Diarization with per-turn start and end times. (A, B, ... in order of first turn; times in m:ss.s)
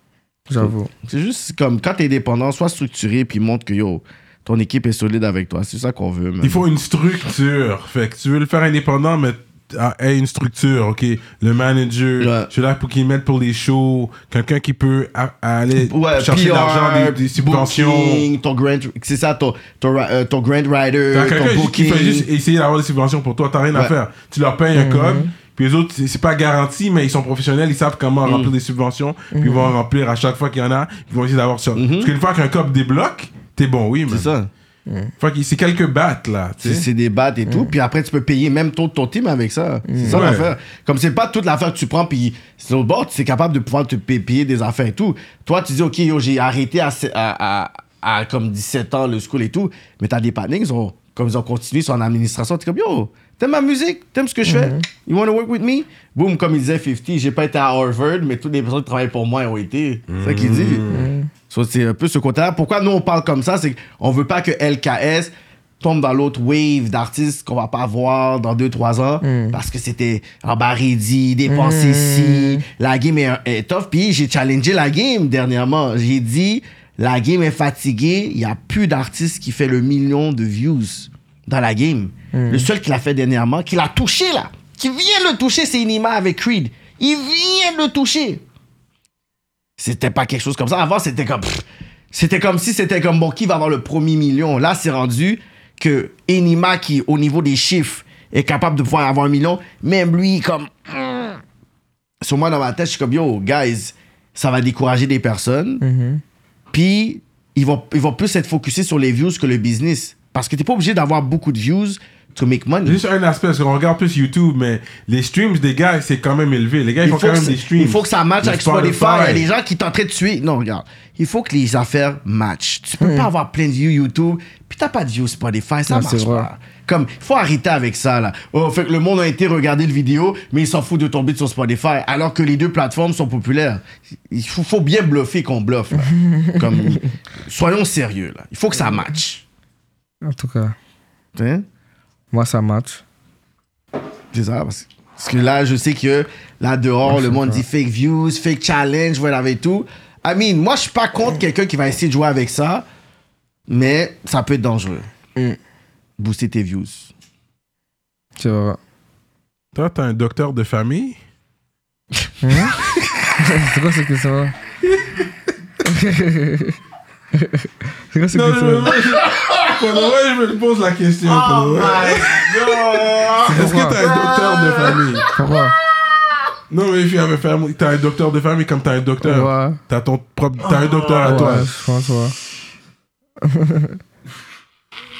0:00.5-0:00.9 A
0:00.6-0:06.6 B
0:06.4-0:18.2 C
0:12.2-0:12.5 B
0:15.8-0:22.3 B
0:21.1-0:34.3 C
0:24.7-0:25.3 A
0:28.2-0:28.5 B
0:29.3-0:29.7 A
0:31.8-0:32.1 B
0:34.1-0:34.5 B
0:34.9-0:35.1 A
0:35.2-0:36.9 C
0:36.6-1:00.8 B
0:37.4-0:37.7 A
0:39.9-0:40.3 A
0:40.1-0:40.6 C
0:54.4-0:54.8 A
1:00.1-1:01.1 C
1:00.9-1:01.3 A
1:01.5-1:28.4 B
1:09.2-1:09.6 A
1:11.5-1:12.6 A
1:22.3-1:22.7 A
1:29.8-1:41.4 B
1:42.2-1:45.8 B
1:45.8-1:46.2 A
1:46.7-1:53.0 B
1:52.8-1:59.4 C
1:57.0-2:19.4 B
2:03.0-2:03.3 A
2:05.9-2:06.5 A
2:16.0-2:17.1 A
2:20.2-2:20.7 A
2:21.4-2:21.6 B
2:22.3-2:23.0 A
2:24.3-2:32.8 B
2:27.0-2:27.6 A
2:33.7-2:35.1 B
2:36.2-2:37.1 B
2:38.4-2:38.8 A
2:39.7-2:41.2 C
2:42.4-2:42.8 A
2:43.4-2:44.6 A
2:44.9-2:45.2 C
2:45.8-2:46.8 A
2:47.3-2:48.9 A
2:48.3-2:55.2 C
2:49.0-2:49.8 B
2:51.2-2:55.3 B
2:53.5-2:54.0 A
2:55.3-2:55.8 A
2:56.7-3:01.7 C
2:59.2-2:59.8 A
3:00.6-3:01.7 B
3:01.2-3:02.4 A
3:03.4-3:04.0 A